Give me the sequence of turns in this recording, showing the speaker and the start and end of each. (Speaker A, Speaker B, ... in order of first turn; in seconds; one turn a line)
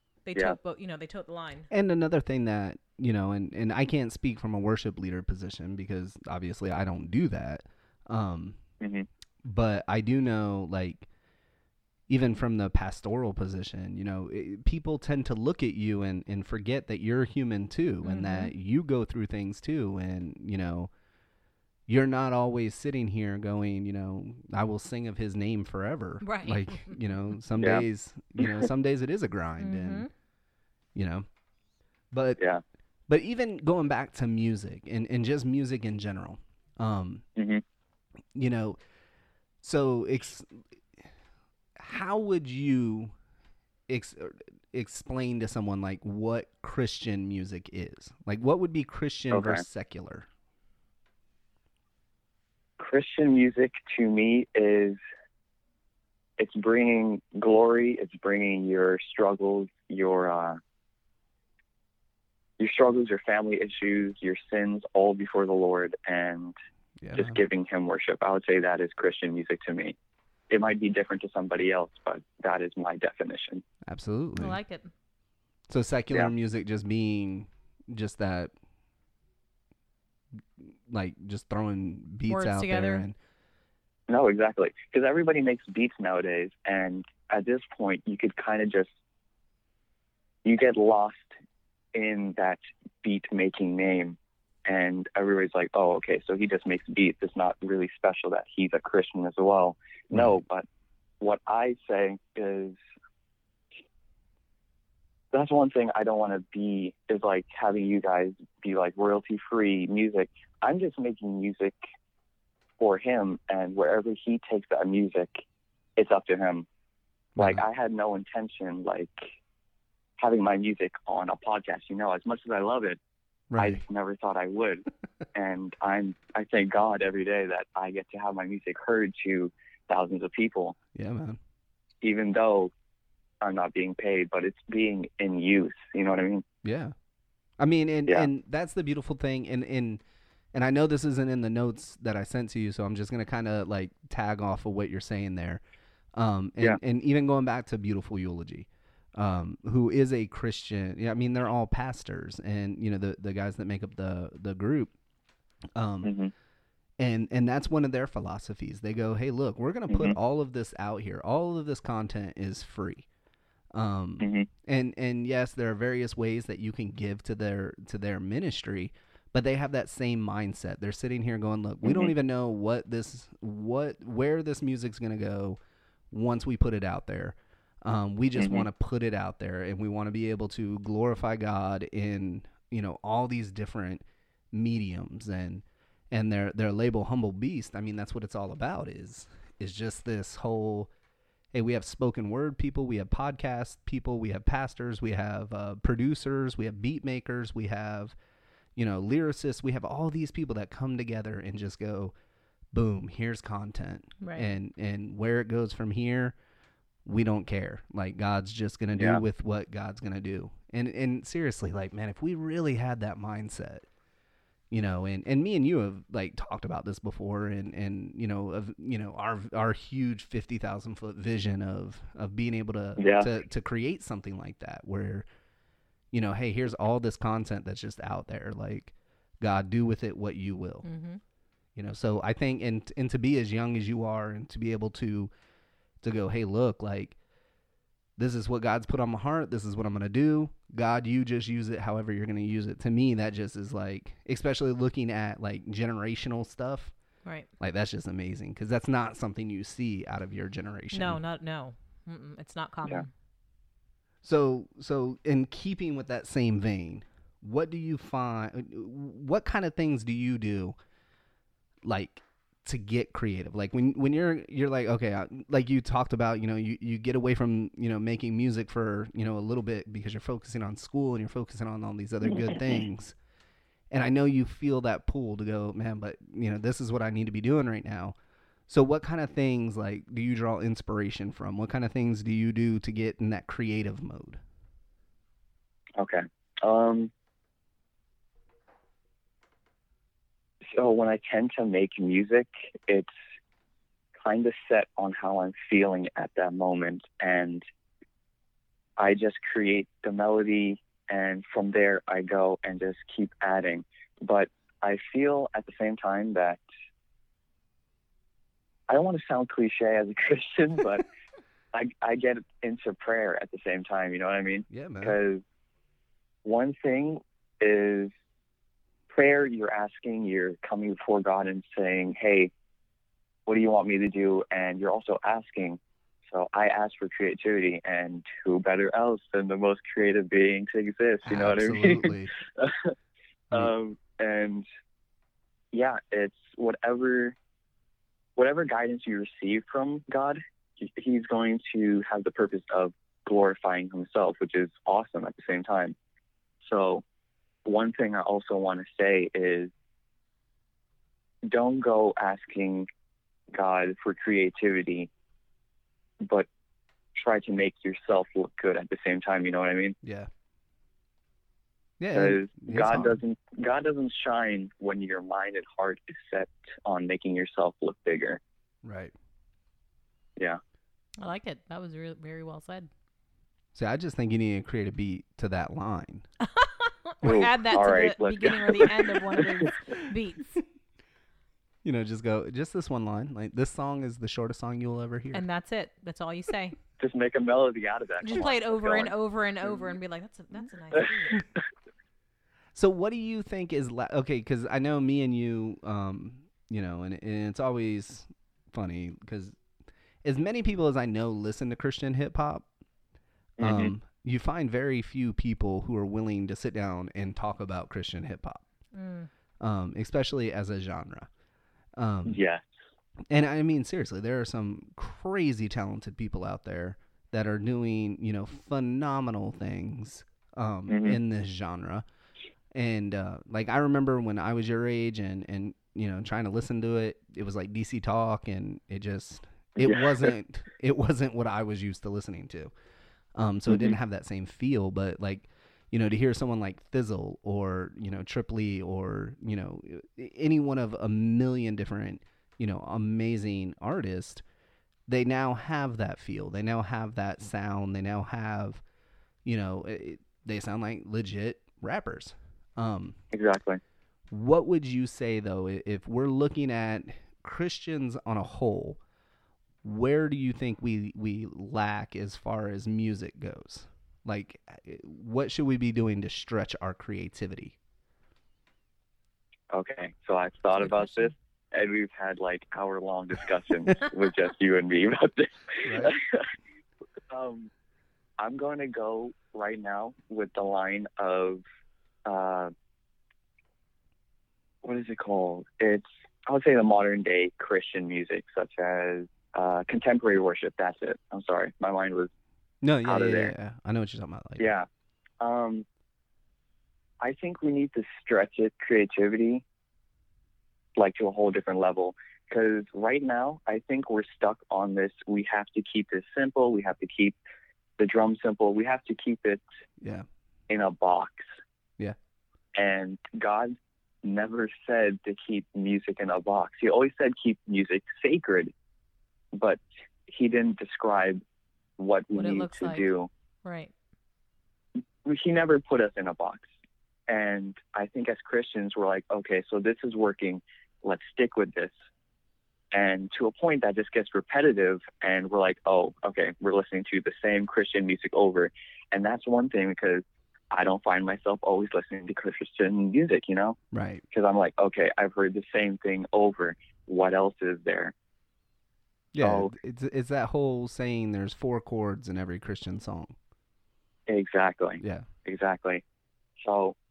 Speaker A: 0.2-1.7
Speaker B: 1.7-8.6
Speaker C: 8.8-9.1
Speaker B: 9.4-11.1
Speaker B: 12.1-20.9
Speaker A: 18.0-18.5
Speaker B: 21.9-30.1
Speaker A: 26.2-27.0
Speaker C: 27.6-27.8
Speaker A: 29.6-30.1
Speaker B: 30.9-31.2
Speaker B: 32.1-32.4
Speaker B: 33.1-37.2
Speaker C: 37.4-37.6
Speaker B: 38.3-38.8
Speaker B: 39.6-40.6
Speaker B: 41.8-43.1
Speaker B: 43.9-50.2
Speaker C: 49.3-49.6
Speaker C: 52.8-55.0
Speaker C: 56.4-60.6
Speaker C: 62.6-66.5
Speaker B: 67.0-67.4
Speaker C: 67.1-70.0
Speaker C: 70.5-73.6
Speaker B: 73.8-74.6
Speaker A: 74.4-74.9
Speaker B: 75.7-78.5
Speaker B: 80.9-83.2
Speaker A: 82.3-83.0
Speaker C: 84.1-88.9
Speaker C: 90.4-91.3
Speaker C: 91.9-100.7
Speaker C: 101.2-102.8
Speaker C: 105.3-111.8
Speaker C: 112.8-115.4
Speaker C: 116.0-116.7
Speaker B: 117.3-117.6
Speaker C: 117.4-119.3
Speaker C: 120.2-123.0
Speaker B: 123.5-123.8
Speaker C: 123.6-130.8
Speaker B: 130.9-131.4
Speaker C: 132.0-132.7
Speaker C: 133.4-136.4
Speaker B: 136.6-136.9
Speaker B: 137.6-140.0
Speaker B: 140.5-145.6
Speaker B: 146.2-154.9
Speaker B: 155.7-156.2
Speaker C: 156.0-156.3
Speaker B: 157.0-163.1
Speaker C: 159.9-160.2
Speaker B: 163.7-175.6
Speaker C: 164.2-164.5
Speaker C: 171.8-172.1
Speaker B: 176.1-190.9
Speaker C: 178.4-178.7
Speaker B: 191.5-198.2
Speaker B: 198.8-202.1
Speaker B: 202.7-206.3
Speaker A: 204.2-204.5
Speaker B: 207.0-213.9
Speaker C: 208.9-209.2
Speaker B: 214.7-225.2
Speaker C: 223.0-223.3
Speaker B: 226.1-230.8
Speaker A: 230.8-231.2
Speaker B: 231.8-235.3
Speaker B: 236.0-237.2
Speaker B: 238.2-246.9
Speaker B: 247.6-251.2
Speaker A: 250.9-253.1
Speaker B: 254.2-260.8
Speaker B: 261.8-273.1
Speaker C: 272.5-272.8
Speaker B: 273.9-278.1
Speaker B: 278.7-284.4
Speaker C: 286.0-287.1
Speaker C: 290.7-293.1
Speaker C: 294.1-297.6
Speaker C: 299.0-306.6
Speaker C: 308.9-311.1
Speaker C: 311.7-315.4
Speaker B: 314.7-315.2
Speaker C: 316.4-318.1
Speaker C: 319.1-322.5
Speaker C: 323.5-325.8
Speaker C: 326.3-332.9
Speaker B: 331.2-332.3
Speaker C: 333.5-334.6
Speaker C: 335.7-337.4
Speaker C: 338.4-345.9
Speaker C: 346.6-347.0
Speaker C: 347.6-349.7
Speaker C: 351.4-352.9
Speaker C: 353.5-355.1
Speaker C: 356.2-356.5
Speaker C: 357.1-359.9
Speaker B: 360.0-360.3
Speaker B: 362.0-363.2
Speaker C: 362.1-368.4
Speaker B: 368.8-369.1
Speaker A: 371.2-372.9
Speaker B: 373.7-376.2
Speaker A: 376.4-380.6
Speaker C: 377.2-379.7
Speaker B: 381.8-385.4
Speaker A: 385.3-386.8
Speaker C: 387.0-389.9
Speaker A: 388.2-391.4
Speaker B: 392.7-399.6
Speaker B: 400.2-402.6
Speaker C: 403.6-403.9
Speaker B: 403.6-408.6
Speaker A: 408.9-409.3
Speaker B: 409.6-411.3
Speaker B: 411.9-412.4
Speaker C: 412.2-412.6
Speaker B: 413.3-422.0
Speaker C: 420.9-421.2
Speaker B: 422.7-432.7
Speaker C: 429.8-430.3
Speaker B: 433.3-444.4
Speaker C: 433.7-433.9
Speaker B: 445.1-448.8
Speaker B: 449.4-453.2
Speaker C: 453.3-453.8
Speaker B: 454.3-459.0
Speaker B: 459.8-467.8
Speaker C: 469.7-476.4
Speaker A: 470.8-471.3
Speaker B: 475.8-476.1
Speaker C: 477.3-477.7
Speaker C: 478.4-481.6
Speaker C: 482.2-482.7
Speaker C: 484.8-492.3
Speaker B: 492.8-494.6
Speaker C: 493.0-493.5
Speaker C: 494.6-494.9
Speaker C: 495.4-495.9
Speaker C: 497.2-499.6
Speaker C: 500.9-507.4
Speaker C: 508.0-509.6
Speaker B: 510.0-510.2
Speaker C: 510.7-511.5
Speaker C: 512.8-518.7
Speaker C: 519.5-521.4
Speaker C: 522.0-523.3
Speaker A: 522.3-523.1
Speaker A: 523.6-523.9
Speaker C: 525.2-526.7
Speaker C: 527.3-531.9
Speaker C: 532.9-543.8
Speaker B: 543.9-544.2
Speaker C: 544.3-548.1
Speaker B: 549.3-553.4
Speaker C: 549.4-549.7
Speaker C: 554.3-556.0
Speaker B: 555.0-555.3
Speaker C: 556.6-557.0